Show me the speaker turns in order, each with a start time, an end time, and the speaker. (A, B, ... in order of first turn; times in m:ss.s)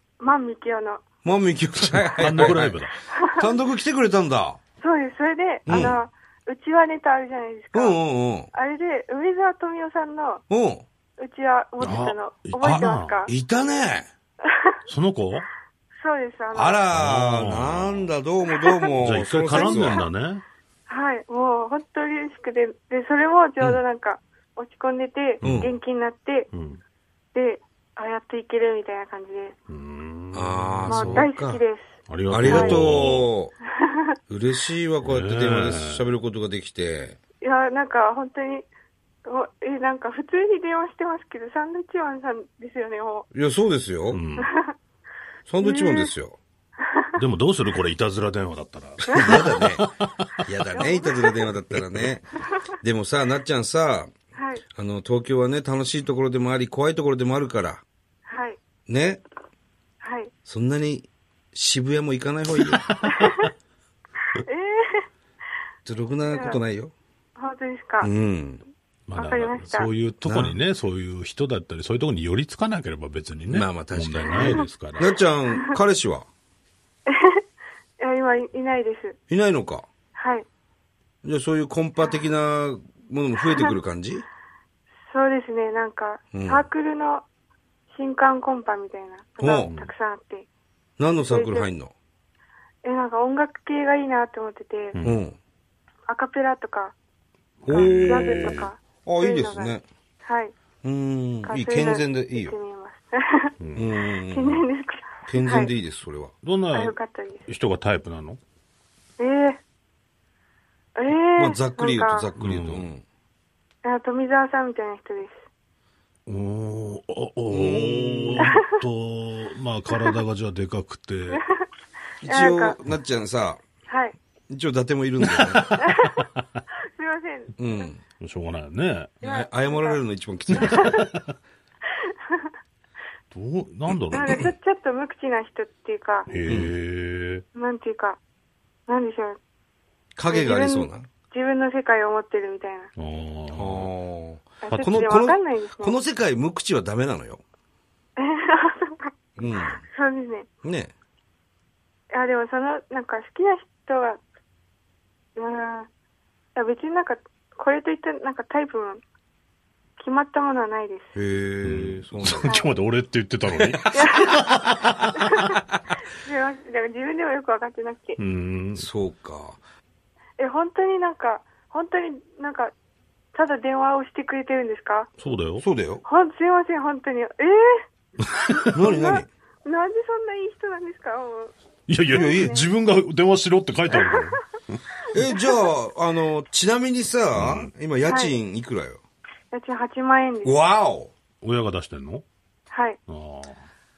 0:00.2-0:01.0 A
0:01.2-0:04.6 B
0:01.9-0:02.9 C
0:03.1-0:03.5 A
0:04.8-0:08.0 A
0:05.7-0:06.0 B
0:05.7-0:05.9 C
0:07.7-0:08.5 B
0:08.5-0:10.4 A
0:10.5-0:10.8 B
0:11.2-0:13.3 A
0:11.8-0:13.2 C
0:13.3-0:14.1 B
0:14.4-0:14.8 A
0:14.9-0:15.5 C
0:16.0-0:16.8 A
0:16.5-0:20.0 B
0:16.9-0:18.1 C
0:18.5-0:18.9 A
0:19.0-0:20.4 C
0:19.5-0:20.1 A
0:20.9-0:26.5 A
0:25.4-0:25.7 B
0:25.4-0:25.7 C
0:26.5-0:26.8 C
0:27.3-0:29.5 A
0:29.7-0:31.3 C
0:30.3-0:31.6 B
0:30.9-0:32.8 A
0:32.1-0:33.3 C
0:32.3-0:33.5 B
0:34.3-0:37.2 B
0:35.0-0:36.1 C
0:37.4-0:38.6 A
0:39.2-0:43.3 A
0:43.3-0:44.2 B
0:44.1-0:44.5 C
0:44.4-0:44.7 A
0:45.5-0:46.4 B
0:45.6-0:46.1 A
0:47.2-0:50.5 C
0:49.0-0:49.9 B
0:50.4-0:52.3 B
0:50.7-0:51.4 A
0:51.7-0:52.1 C
0:52.8-0:54.1 B
0:54.4-0:54.6 A
0:54.7-0:57.8 B
0:58.3-0:58.6 A
0:58.9-0:59.2 B
1:00.0-1:00.3 A
1:00.4-1:02.9 B
1:02.6-1:03.4 C
1:03.1-1:03.5 A
1:04.4-1:05.1 A
1:05.8-1:06.9 B
1:06.3-1:06.6 A
1:07.4-1:08.1 A
1:08.0-1:08.6 B
1:09.1-1:15.2 C
1:09.2-1:09.9 A
1:10.2-1:10.6 B
1:13.5-1:16.3 B
1:14.3-1:14.6 A
1:17.1-1:17.4 A
1:18.0-1:19.2 A
1:19.3-1:19.8 B
1:20.1-1:20.4 A
1:21.2-1:24.2 B
1:23.4-1:23.8 A
1:25.1-1:27.2 A
1:26.3-1:26.7 B
1:27.9-1:30.5 A
1:29.4-1:29.7 B
1:29.6-1:29.9 C
1:31.0-1:31.9 B
1:31.2-1:31.7 A
1:32.8-1:35.0 A
1:34.9-1:35.2 C
1:35.0-1:35.4 B
1:36.1-1:36.9 A
1:37.6-1:38.7 C
1:37.6-1:39.8 B
1:37.7-1:40.5 A
1:40.8-1:42.5 B
1:41.4-1:43.5 A
1:43.6-1:43.8 C
1:43.7-1:44.6 B
1:44.3-1:45.7 A
1:45.2-1:46.3 B
1:46.4-1:48.4 C
1:46.7-1:47.4 A
1:49.2-1:49.6 A
1:51.0-1:52.3 A
1:51.4-1:53.0 B
1:52.4-1:52.8 C
1:53.8-1:55.4 A
1:56.3-2:01.4 C
1:57.5-1:58.6 B
2:01.3-2:01.6 A
2:02.2-2:03.6 B
2:02.2-2:02.8 A
2:03.9-2:04.2 A
2:04.5-2:05.7 B
2:05.3-2:06.6 C
2:05.8-2:06.2 A
2:06.9-2:07.9 A
2:07.6-2:08.0 B
2:08.2-2:09.1 C
2:09.2-2:10.0 A
2:09.2-2:11.0 B
2:10.6-2:10.9 A
2:10.6-2:11.3 C
2:13.3-2:14.4 C
2:14.1-2:16.3 A
2:16.3-2:17.4 C
2:16.5-2:16.7 B
2:17.5-2:18.2 A
2:18.9-2:19.4 A
2:20.2-2:21.0 B
2:20.3-2:22.9 A
2:23.0-2:23.9 C
2:23.5-2:27.4 B
2:24.6-2:26.0 A
2:24.7-2:25.1 C
2:28.2-2:29.1 A
2:29.4-2:29.8 B
2:29.8-2:30.5 A
2:30.6-2:30.9 B
2:32.1-2:34.2 A
2:35.4-2:35.9 A
2:36.5-2:39.0 A
2:40.0-2:41.1 A
2:41.1-2:42.6 B
2:41.6-2:45.4 C
2:42.4-2:42.7 A
2:43.9-2:44.4 A
2:45.2-2:45.6 A
2:46.1-2:48.2 A
2:48.2-2:48.9 C
2:48.8-2:49.6 B
2:50.4-2:52.7 A
2:53.3-2:55.1 A
2:55.2-2:55.6 C
2:55.6-2:56.0 B
2:56.0-2:57.8 A
2:58.5-3:01.5 A
2:58.7-2:59.3 B
3:01.9-3:05.3 C
3:02.1-3:02.6 A
3:02.1-3:02.6 B
3:05.1-3:09.0 B
3:07.3-3:07.7 C
3:08.0-3:08.4 A
3:09.5-3:10.6 A
3:10.4-3:11.1 B
3:11.4-3:12.2 C
3:12.7-3:13.0 A
3:13.1-3:13.7 C